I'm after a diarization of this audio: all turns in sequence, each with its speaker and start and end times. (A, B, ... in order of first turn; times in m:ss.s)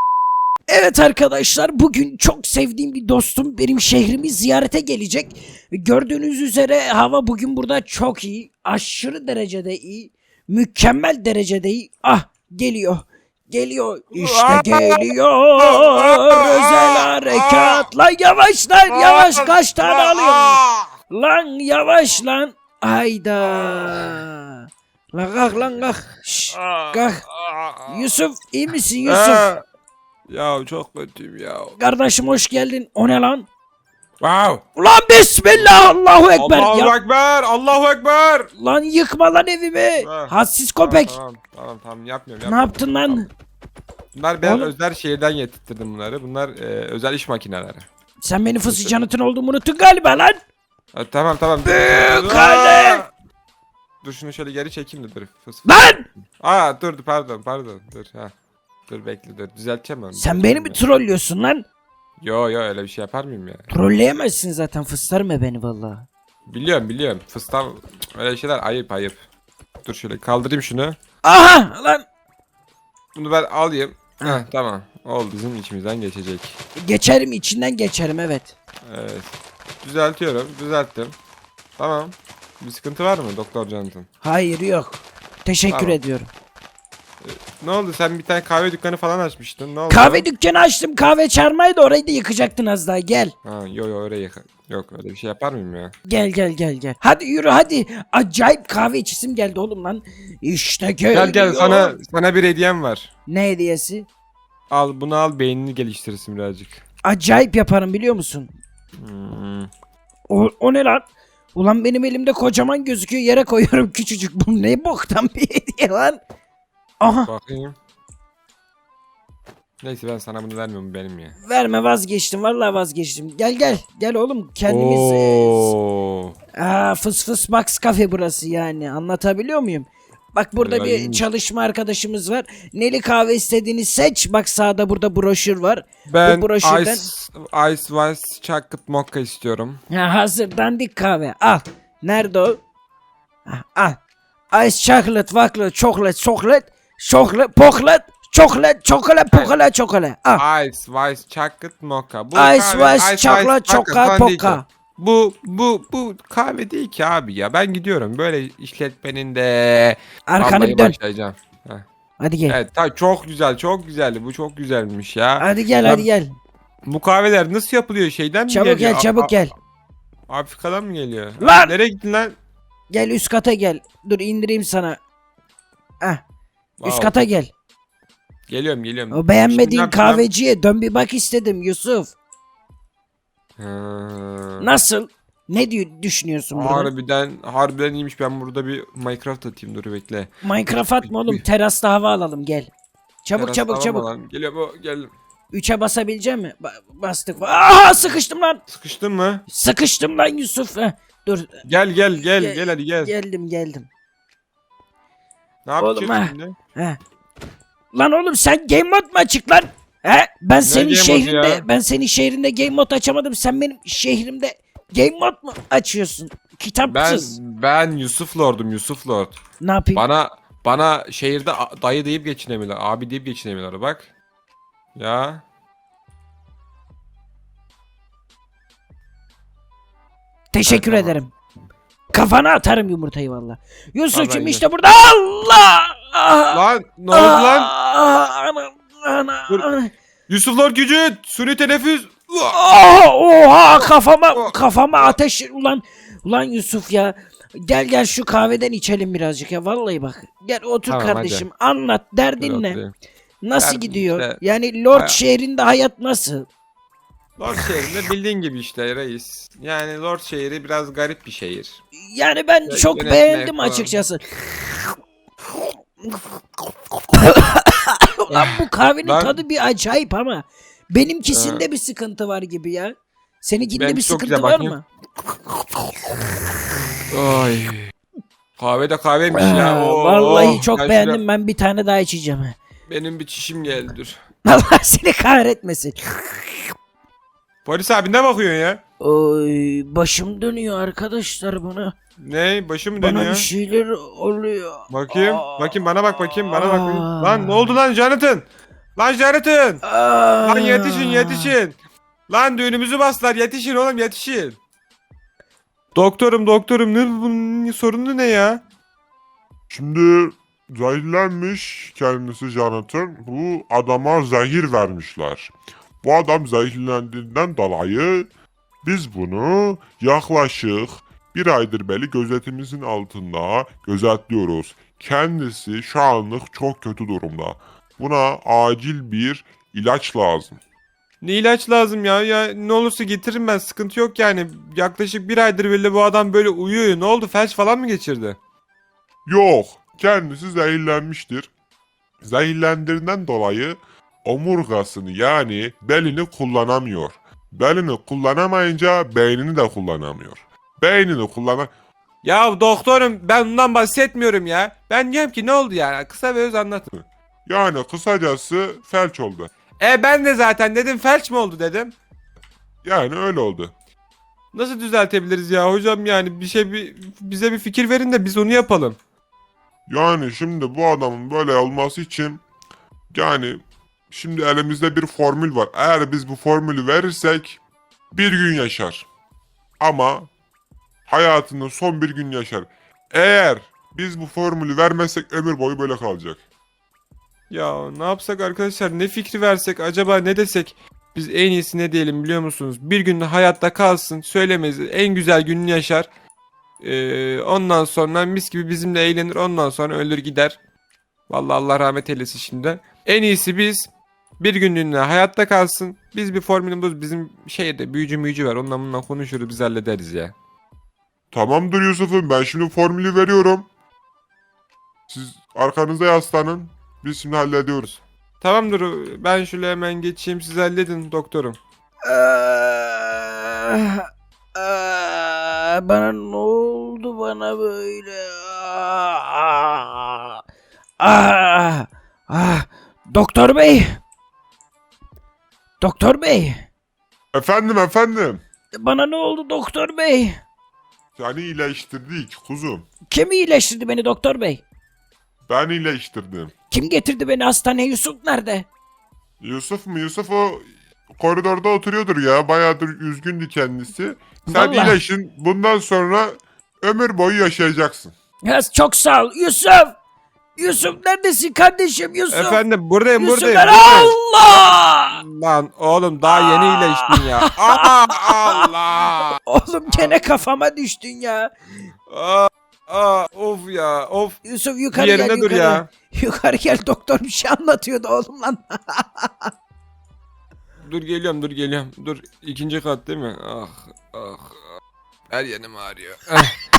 0:00.7-0:27.2 A
0:14.1-0:17.9 B
0:18.9-0:20.9 B
0:23.6-0:24.0 B
0:26.5-0:28.1 B
0:27.9-0:29.5 A
0:29.0-0:29.6 B
0:30.3-0:31.8 B
0:31.8-0:33.5 A
0:34.2-0:34.6 B
0:34.8-0:36.9 A
0:36.3-0:38.5 B
0:38.6-0:41.2 A
0:40.0-0:43.3 B
0:42.4-0:43.3 A
0:44.1-0:47.9 B
0:44.4-0:44.7 A
0:48.2-0:50.4 A
0:48.6-0:48.9 B
0:50.9-0:53.1 B
0:51.6-0:53.0 A
0:54.0-0:55.8 B
0:55.6-0:56.0 A
0:56.4-0:58.3 B
0:58.9-1:00.8 B
1:00.2-1:01.6 A
1:02.2-1:03.6 B
1:03.7-1:06.1 A
1:06.5-1:09.2 B
1:09.8-1:11.0 B
1:11.2-1:12.0 A
1:13.2-1:16.6 B
1:16.8-1:18.5 A
1:18.8-1:21.2 B
1:21.8-1:24.1 B
1:24.2-1:26.3 A
1:25.7-1:26.0 B
1:27.2-1:30.3 B
1:29.9-1:33.3 A
1:33.4-1:35.9 B
1:36.1-1:42.0 A
1:41.1-1:43.1 B
1:43.3-1:44.1 A
1:44.7-1:46.8 B
1:47.0-1:48.5 A
1:49.0-1:49.7 B
1:50.3-1:56.2 A
1:57.0-1:57.3 A
1:57.2-1:57.8 B
1:59.8-2:01.4 B
2:01.4-2:05.7 A
2:04.7-2:06.4 B
2:06.6-2:17.1 A
2:10.6-2:11.3 B
2:16.1-2:19.8 B
2:19.9-2:22.6 A
2:23.5-2:24.0 A
2:24.5-2:30.4 A
2:30.4-2:41.8 B
2:32.4-2:34.6 A
2:40.3-2:41.0 A
2:42.2-2:42.6 A
2:42.5-2:46.1 B
2:45.4-2:46.3 A
2:46.8-2:49.3 B
2:48.5-2:49.5 A
2:50.3-2:52.4 B
2:51.4-2:51.7 A
2:52.9-2:55.0 A
2:56.8-2:57.2 B
2:56.8-2:57.5 A
2:58.5-3:00.2 B
2:59.1-3:02.1 A
3:03.6-3:04.7 B
3:04.6-3:06.9 A
3:06.5-3:11.4 B
3:10.4-3:12.7 A
3:13.2-3:14.1 A
3:13.4-3:15.1 B
3:15.5-3:18.6 A
3:18.7-3:19.4 B
3:19.5-3:21.6 A
3:21.6-3:23.1 B
3:22.2-3:23.9 A
3:25.7-3:26.6 B
3:25.8-3:27.0 A
3:27.9-3:37.4 A
3:30.6-3:31.6 B
3:36.9-3:39.4 B
3:39.6-3:40.0 A
3:40.0-3:44.1 B
3:45.0-3:45.4 B
3:50.5-3:51.3 A
3:50.6-3:51.2 B
3:52.1-3:56.6 A
3:54.1-3:54.6 B
3:56.5-3:57.7 B
3:57.1-3:59.9 A
4:00.3-4:02.6 B
4:02.5-4:12.8 A
4:03.8-4:05.2 B
4:10.9-4:11.4 B
4:12.4-4:12.9 B
4:13.4-4:16.5 A
4:13.6-4:14.4 B
4:14.9-4:15.2 B
4:17.4-4:21.8 B
4:22.0-4:24.9 A
4:22.7-4:24.0 B
4:27.1-4:34.8 A
4:28.3-4:29.4 B
4:31.3-4:31.7 B
4:33.8-4:34.8 B
4:37.1-4:37.9 B
4:38.6-4:41.2 B
4:39.3-4:42.6 A
4:42.9-4:44.2 B
4:44.5-4:46.7 A
4:47.7-4:48.8 B
4:49.0-4:52.0 A
4:52.2-4:53.5 B
4:53.0-4:55.8 A
4:54.9-4:59.8 B
4:56.4-4:57.8 A
4:59.8-5:01.6 A
5:00.4-5:01.8 B
5:02.3-5:04.6 B
5:06.0-5:08.6 B
5:09.7-5:18.3 C
5:18.8-5:30.6 C
5:31.2-5:38.4 B
5:39.3-5:41.5 C
5:42.2-5:51.7 C
5:52.2-5:56.9 B
5:57.5-5:59.5 C
5:59.8-6:02.0 B
6:02.8-6:03.7 C
6:04.5-6:09.0 B
6:09.9-6:12.4 C
6:13.1-6:17.6 C
6:18.1-6:19.1 C
6:19.8-6:20.3 C
6:21.1-6:26.4 C
6:27.5-6:36.1 B
6:36.8-6:40.6 B
6:41.3-6:43.9 B
6:44.4-6:50.4 B
6:51.3-6:53.7 C
6:55.1-6:58.0 C
6:58.4-7:01.6 B
7:02.1-7:10.4 A
7:11.0-7:13.8 A
7:15.8-7:16.6 A
7:17.3-7:18.4 C
7:18.8-7:20.4 A
7:21.2-7:22.9 C
7:23.1-7:24.6 A
7:25.5-7:26.5 C
7:26.7-7:28.7 A
7:29.4-7:38.1 C
7:34.5-7:35.0 A
7:38.4-7:40.0 A
7:40.6-7:42.6 A
7:42.3-7:50.2 B
7:43.2-7:45.2 A
7:46.3-7:48.7 A
7:49.5-7:51.5 A
7:52.1-7:54.4 B
7:54.4-7:59.5 A
7:54.9-7:55.9 B
8:00.8-8:04.6 B
8:05.3-8:06.6 B